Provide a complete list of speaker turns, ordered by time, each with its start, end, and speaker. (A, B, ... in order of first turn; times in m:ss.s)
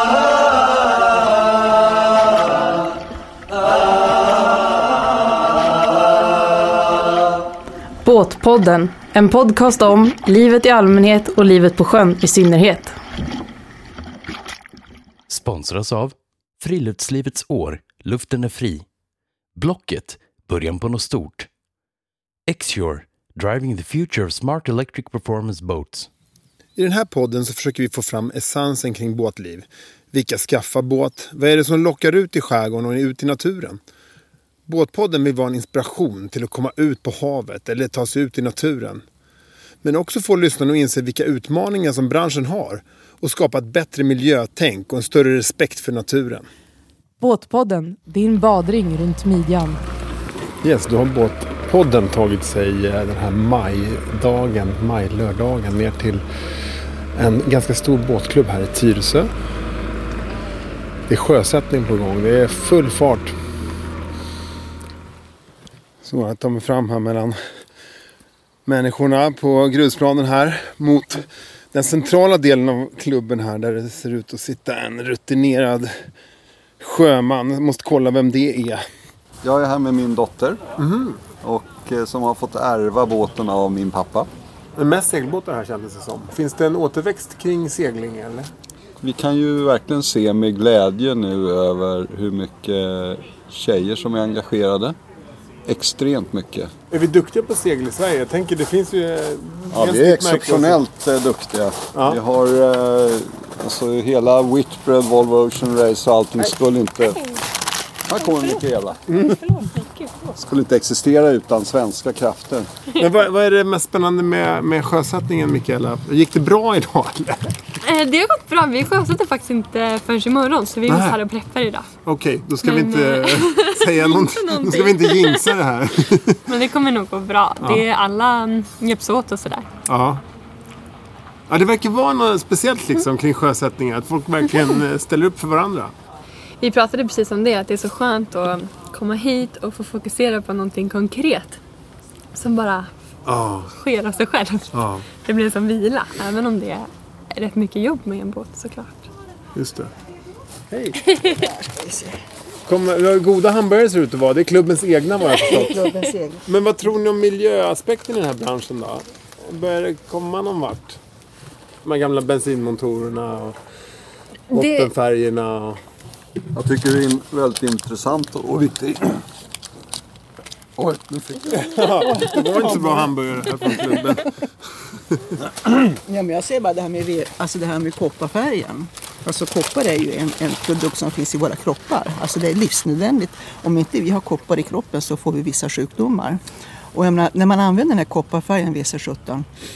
0:08.0-0:13.0 A
0:15.3-0:18.8 B
0:19.6-0:21.5 B
0:22.5-0:26.1 B
0:26.8-0:33.8 C
0:34.7-0:39.0 C
0:39.8-0:46.5 C
0:47.2-0:49.8 A
0:50.6-0:56.2 C
0:57.2-0:59.3 C
1:01.1-1:03.4 C
1:06.0-1:07.4 C
1:08.7-1:16.1 C
1:16.8-1:18.8 C
1:19.4-1:20.6 D
1:20.8-1:21.2 C
1:21.4-1:24.3 D
1:24.8-1:28.5 C
1:29.0-1:35.0 D
1:35.7-1:36.7 D
1:36.9-1:40.8 C
1:39.7-1:47.2 D
1:41.9-1:42.2 C
1:48.1-1:49.0 D
1:49.1-1:49.4 C
1:49.8-1:50.1 E
1:50.3-1:52.7 D
1:53.0-1:57.5 C
1:57.8-2:01.9 E
2:00.9-2:01.2 C
2:02.0-2:06.4 C
2:02.6-2:05.6 E
2:06.5-2:09.7 E
2:07.6-2:07.8 C
2:09.9-2:10.2 C
2:11.5-2:15.9 C
2:16.6-2:21.6 E
2:22.3-2:22.9 E
2:23.3-2:23.7 C
2:23.7-2:29.1 E
2:24.7-2:25.0 C
2:29.6-2:29.9 C
2:30.7-2:31.0 C
2:31.4-2:32.2 F
2:32.6-2:35.9 C
2:35.4-2:36.4 F
2:36.5-2:41.0 C
2:41.8-2:43.6 C
2:44.5-2:45.8 C
2:44.6-2:44.9 E
2:46.5-2:49.2 D
2:50.8-2:51.6 D
2:51.5-2:54.3 C
2:52.0-2:53.1 F
2:53.6-2:53.9 F
2:55.6-3:09.5 F